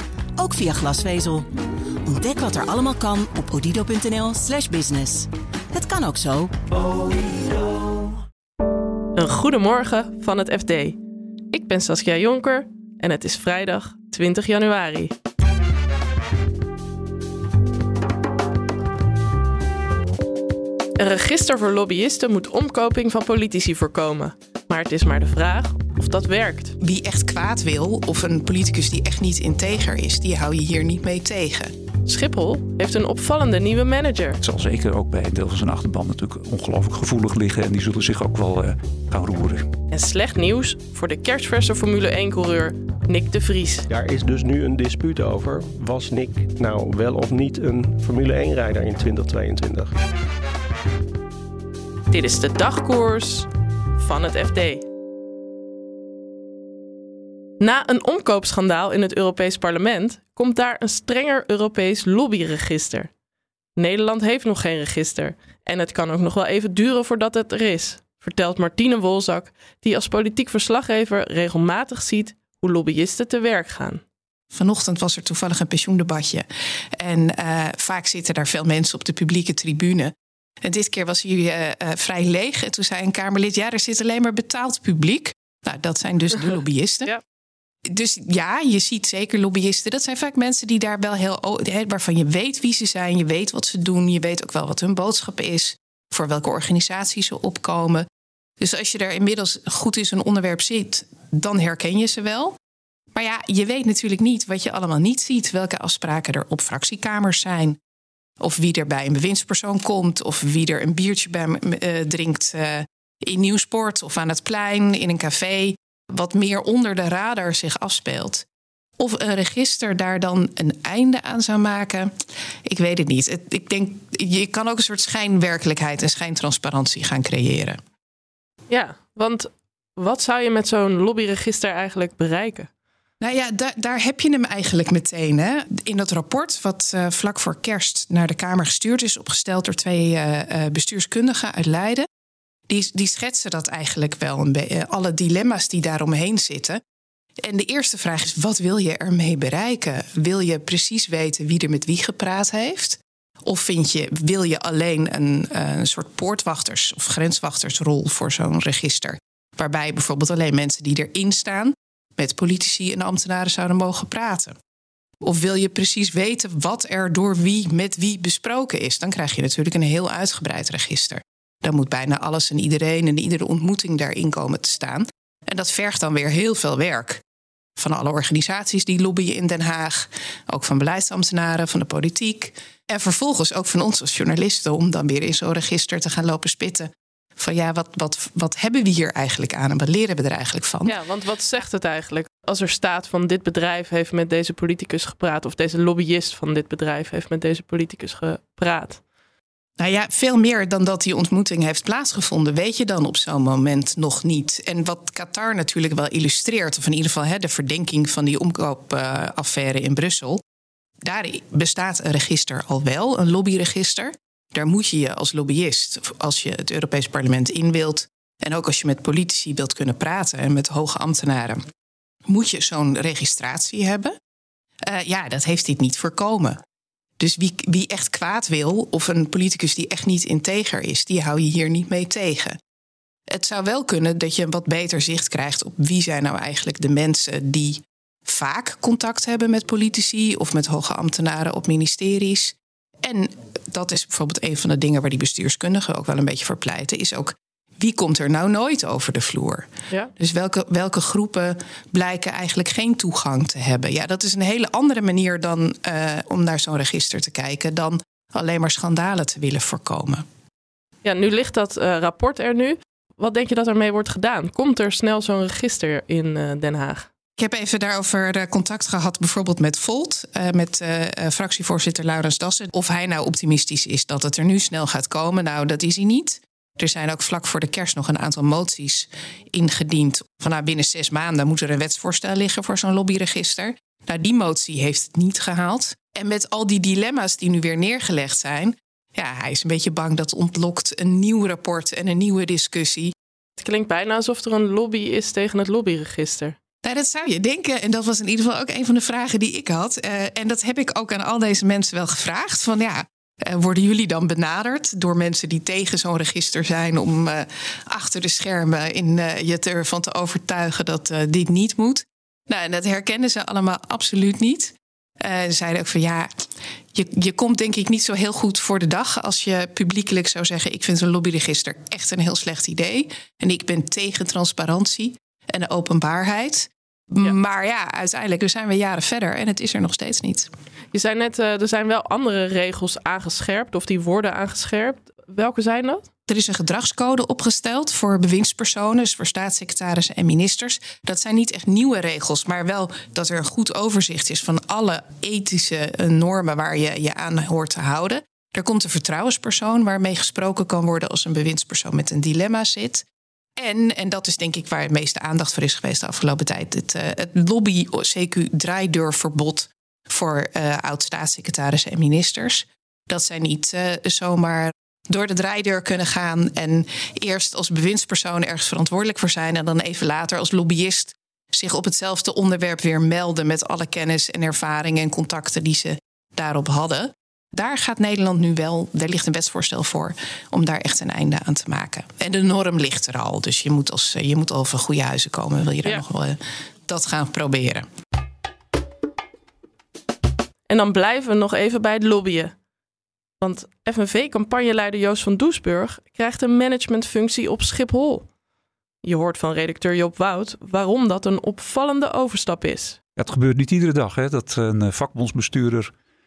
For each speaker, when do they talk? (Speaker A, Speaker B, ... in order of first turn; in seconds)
Speaker A: 0.4-1.5, 2.0-6.5
Speaker B: 9.2-11.0, 11.5-15.1, 21.0-26.8, 32.0-34.4, 39.9-43.9, 52.1-54.8, 57.6-63.1, 63.8-74.0, 128.7-132.7, 190.8-199.0, 261.0-267.1, 293.6-296.6, 330.9-336.1, 390.7-392.5, 393.4-398.2, 399.0-403.0
Speaker C: 26.8-31.7, 74.5-76.5, 77.0-80.1, 80.6-87.1, 87.9-98.0, 98.6-102.5, 103.1-107.8, 108.4-118.4, 119.0-122.1, 122.7-127.8, 133.2-142.0, 142.7-146.8, 147.4-164.6, 165.2-177.2, 177.8-190.9, 199.8-210.4, 211.0-221.6, 222.3-224.1, 224.9-226.6, 227.2-232.6, 233.3-260.2, 267.4-293.1, 296.8-316.3, 316.9-330.5, 336.3-353.0, 353.6-387.9
Speaker D: 34.4-39.6, 403.2-405.9
Speaker E: 43.9-50.0